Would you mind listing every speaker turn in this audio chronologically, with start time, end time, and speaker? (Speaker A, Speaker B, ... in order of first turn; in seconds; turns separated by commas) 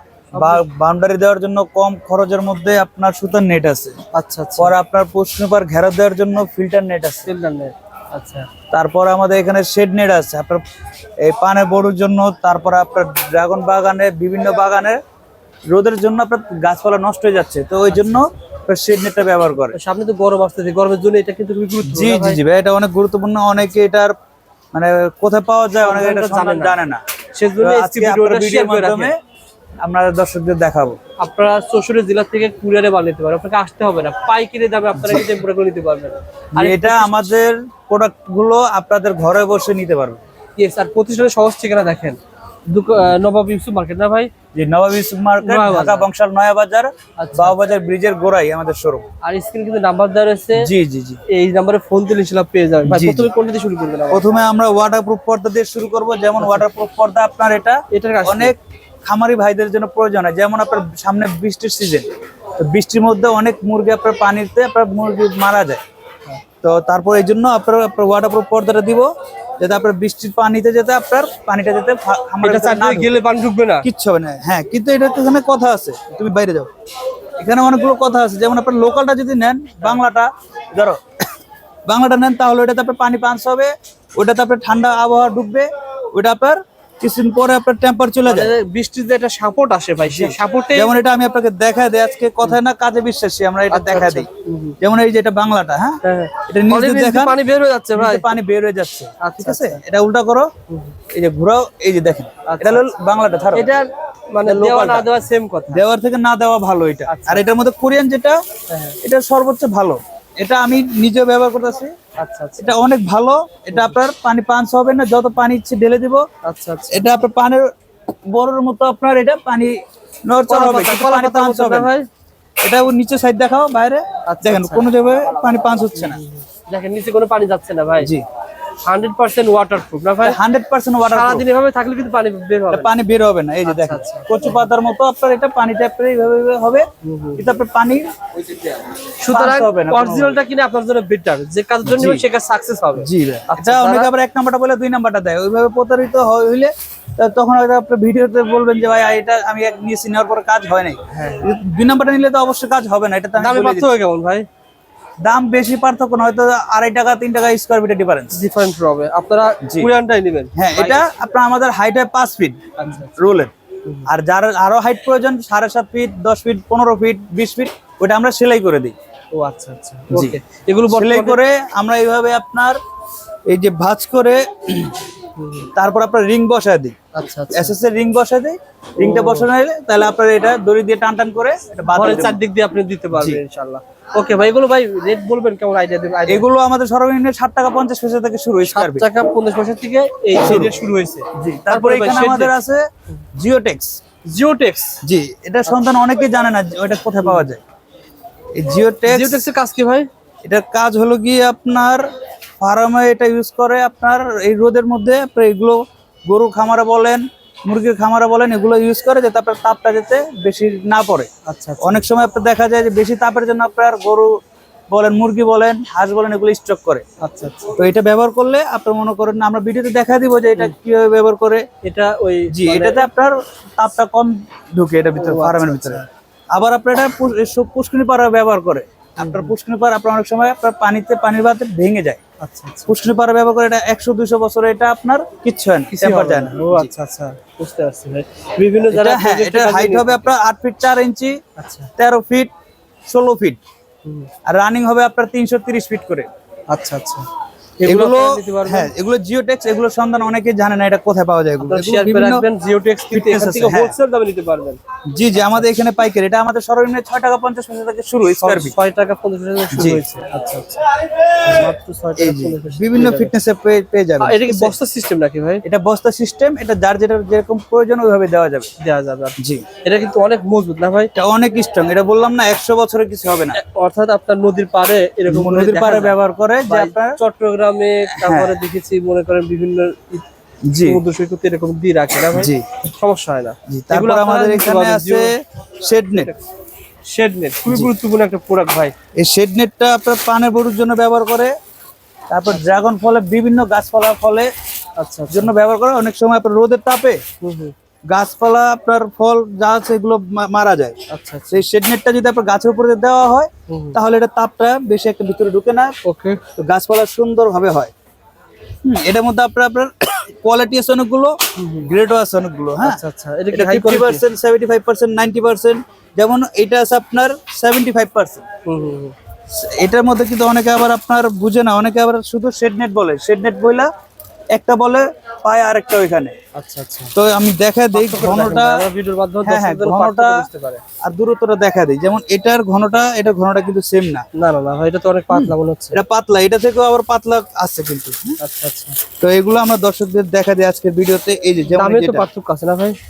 Speaker A: 0.3-0.6, Speaker B: 0.3-3.9, Speaker A: 4.1-4.7, Speaker B: 4.6-7.3, Speaker A: 7.2-8.5, Speaker B: 8.7-10.6, Speaker B: 11.2-15.0, Speaker B: 15.7-19.8, Speaker A: 17.9-18.2, Speaker A: 19.7-22.4, Speaker B: 21.9-24.1, Speaker B: 24.7-27.0, Speaker A: 25.7-26.8, Speaker A: 27.3-29.1, Speaker B: 27.6-29.1, Speaker B: 29.8-31.0, Speaker A: 31.2-37.3, Speaker B: 35.0-35.3, Speaker B: 36.5-40.2, Speaker A: 40.5-44.3, Speaker B: 44.5-49.0, Speaker A: 45.4-46.1, Speaker A: 47.2-47.6, Speaker A: 49.2-50.7, Speaker B: 50.5-51.2, Speaker A: 51.3-54.2, Speaker B: 52.9-53.3, Speaker B: 54.1-62.1, Speaker A: 56.4-56.6, Speaker A: 57.9-58.5, Speaker B: 62.6-65.8, Speaker B: 66.6-73.2, Speaker A: 72.4-73.9, Speaker B: 73.8-76.7, Speaker B: 77.4-81.0, Speaker B: 81.9-88.5, Speaker A: 88.2-91.0, Speaker B: 90.1-94.3, Speaker A: 93.7-94.8, Speaker B: 94.8-97.4, Speaker A: 96.0-98.3, Speaker B: 97.9-100.5, Speaker A: 99.2-99.8, Speaker A: 100.7-101.0, Speaker B: 101.1-103.7, Speaker A: 102.5-102.9, Speaker A: 103.5-105.8, Speaker B: 104.4-105.1, Speaker B: 105.7-108.4, Speaker A: 107.1-107.5, Speaker A: 108.7-109.0, Speaker B: 109.0-111.9, Speaker A: 112.2-112.7, Speaker B: 112.6-116.2, Speaker A: 113.7-114.0, Speaker A: 116.4-117.1, Speaker B: 116.9-117.7, Speaker B: 118.3-121.9, Speaker A: 120.5-122.1, Speaker B: 122.6-126.2, Speaker A: 124.2-124.8, Speaker A: 125.9-128.1, Speaker B: 128.0-128.2, Speaker A: 128.8-130.4, Speaker B: 130.2-131.4, Speaker A: 131.1-132.9, Speaker B: 132.7-138.1, Speaker A: 133.6-134.6, Speaker A: 137.0-137.4, Speaker A: 139.2-144.1, Speaker B: 139.2-140.4, Speaker B: 141.8-142.2, Speaker B: 143.0-153.9, Speaker A: 151.1-151.5, Speaker A: 153.4-154.5, Speaker B: 155.2-158.4, Speaker A: 158.3-161.0, Speaker B: 159.6-159.9, Speaker B: 160.5-163.5, Speaker A: 162.8-163.2, Speaker B: 164.1-168.9, Speaker A: 169.3-171.4, Speaker B: 170.1-170.4, Speaker B: 170.9-172.8, Speaker B: 173.5-175.0, Speaker A: 175.3-175.7, Speaker B: 175.7-176.9, Speaker A: 177.1-177.7, Speaker B: 177.5-182.4, Speaker A: 179.0-179.5, Speaker A: 181.9-186.4, Speaker B: 183.1-183.4, Speaker B: 186.3-189.1, Speaker A: 188.6-192.5, Speaker B: 190.4-190.7, Speaker B: 191.3-194.0, Speaker A: 194.2-195.0, Speaker B: 195.0-197.6, Speaker B: 198.5-199.4, Speaker A: 199.1-200.1, Speaker B: 200.4-202.1, Speaker B: 202.6-214.3, Speaker A: 211.4-212.0, Speaker B: 214.9-217.0, Speaker A: 217.2-217.8, Speaker B: 217.7-221.7, Speaker A: 221.8-223.1, Speaker B: 222.5-232.2, Speaker A: 225.2-226.1, Speaker A: 229.2-229.5, Speaker A: 232.4-232.9, Speaker B: 232.9-236.9, Speaker A: 235.9-240.3, Speaker B: 238.9-241.4, Speaker A: 241.6-241.9, Speaker B: 242.0-242.5, Speaker B: 243.1-243.6, Speaker A: 244.0-244.3, Speaker B: 244.5-246.3, Speaker A: 246.7-247.3, Speaker A: 247.8-248.9, Speaker B: 247.8-252.4, Speaker A: 251.6-254.8, Speaker B: 253.1-253.9, Speaker B: 255.1-258.8, Speaker A: 255.4-255.6, Speaker A: 258.4-263.3, Speaker B: 259.7-260.0, Speaker B: 262.2-264.7, Speaker A: 264.2-265.6, Speaker B: 265.6-268.7, Speaker A: 268.8-271.1, Speaker B: 269.4-269.6, Speaker B: 271.1-273.6, Speaker A: 273.5-280.2, Speaker B: 275.3-277.2, Speaker B: 278.1-278.6, Speaker B: 280.6-281.0, Speaker A: 280.8-285.3, Speaker B: 282.3-282.7, Speaker B: 283.7-286.3, Speaker A: 286.1-286.4, Speaker A: 287.1-288.9, Speaker B: 289.2-291.5, Speaker B: 292.3-294.5, Speaker A: 295.0-295.5, Speaker B: 295.3-297.2, Speaker A: 297.4-297.7, Speaker B: 298.1-301.0, Speaker A: 301.1-301.6, Speaker B: 301.5-305.9, Speaker A: 303.7-304.0, Speaker A: 306.0-306.4, Speaker B: 306.6-307.9, Speaker B: 308.8-313.0, Speaker A: 311.6-311.9, Speaker A: 312.8-314.2, Speaker B: 313.5-318.4, Speaker A: 318.6-319.1, Speaker B: 319.5-323.9, Speaker B: 324.5-326.3, Speaker A: 326.5-327.1, Speaker B: 327.1-328.8, Speaker A: 327.9-330.8, Speaker B: 329.4-330.4, Speaker B: 331.0-334.2, Speaker A: 334.3-336.0, Speaker B: 335.3-338.4, Speaker A: 338.4-339.0, Speaker B: 339.2-342.3, Speaker A: 341.7-343.0